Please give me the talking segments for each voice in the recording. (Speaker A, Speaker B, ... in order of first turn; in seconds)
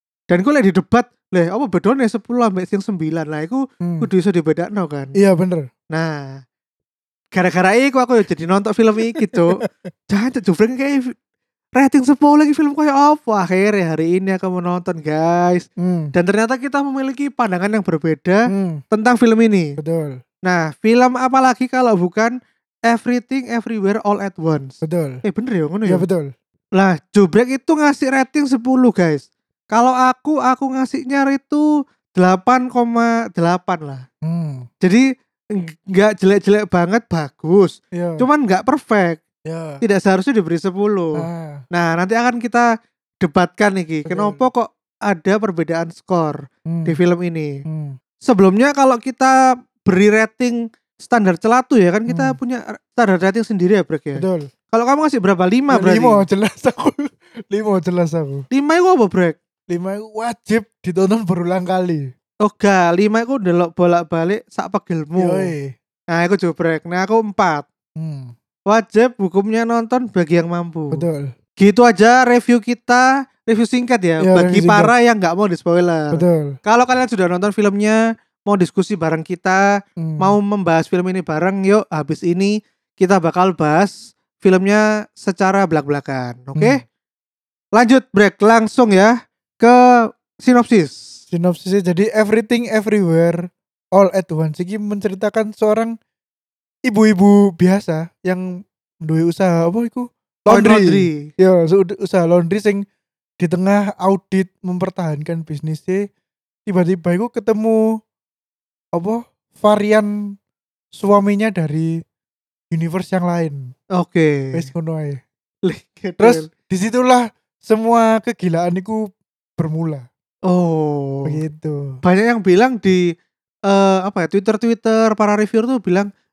Speaker A: 0.3-5.2, 5.9-6.4, 7.3-11.1, 11.8-19.8, 20.4-22.3, 22.9-26.1, 26.8-34.0, 35.6-39.2, 39.8-42.7, 43.2-47.5, 48.2-56.2, 58.5-59.4, 62.4-65.5, 66.1-67.7, 68.7-71.0, 71.6-79.7, 80.2-86.8, 87.8-89.8, 90.3-91.0, 100.5-101.3, 114.0-114.7, 115.7-116.5, 120.5-121.4, 122.0-123.1, 123.7-126.1
Speaker B: 3.8-4.1, 5.2-5.7, 9.2-9.6, 15.8-16.1, 18.5-18.8, 19.8-20.2, 24.8-25.2, 25.9-26.3, 34.2-34.7, 37.9-38.3, 39.5-39.8, 41.2-41.6, 44.0-44.4, 46.7-47.0, 47.7-48.0, 52.1-52.4, 54.1-54.5, 55.7-58.5, 59.7-62.1, 65.2-65.7, 68.0-68.3, 70.9-71.3, 74.2-74.9, 76.1-76.6, 80.0-80.4, 86.5-86.8, 91.3-96.0, 96.9-102.8, 103.4-106.0, 106.7-108.0, 108.9-110.2, 110.9-111.9, 112.7-113.7, 114.5-115.2, 116.2-120.0, 121.2-122.0